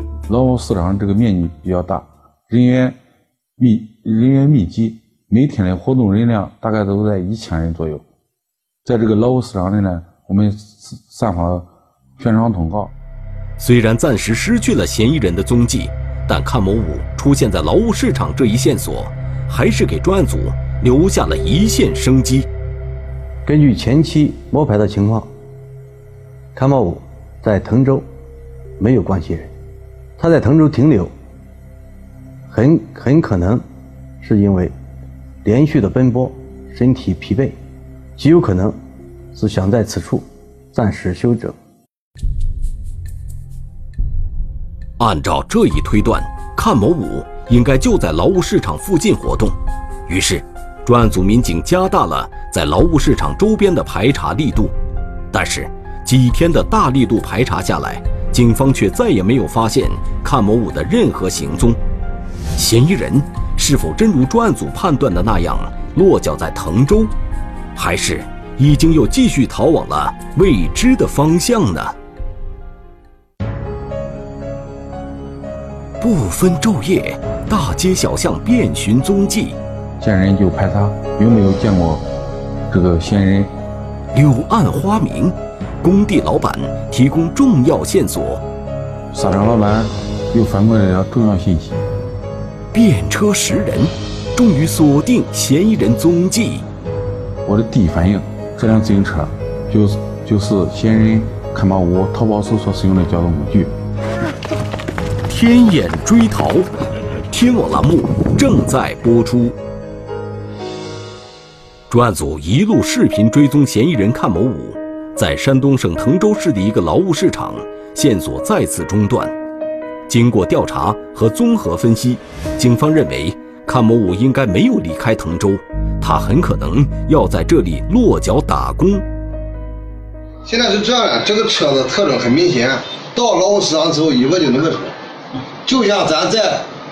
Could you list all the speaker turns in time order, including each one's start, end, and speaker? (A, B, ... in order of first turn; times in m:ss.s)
0:00.3-0:03.0 A
0:03.6-0:08.0 A
0:08.8-0:12.9 A
0:13.6-0:22.5 B
0:23.4-0:25.3 C
0:26.5-0:28.0 C
0:28.8-0:29.5 C
0:30.2-0:31.1 C
0:32.5-0:33.6 C
0:34.2-0:34.7 C
0:35.4-0:37.6 C
0:38.2-0:38.8 C
0:39.3-0:41.6 C
0:45.0-0:54.7 B
0:55.3-1:01.8 B
1:02.6-1:07.1 B
1:07.8-1:12.0 B
1:16.0-1:19.6 B
1:20.0-1:22.0 A
1:22.7-1:23.5 A
1:24.1-1:28.4 B
1:29.1-1:31.8 A
1:32.7-1:36.6 B
1:37.4-1:43.7 A
1:45.3-1:46.7 B
1:47.3-1:49.6 B
1:51.9-1:59.3 B
2:00.1-2:09.0 B
2:10.4-2:14.9 D
2:15.6-2:16.6 D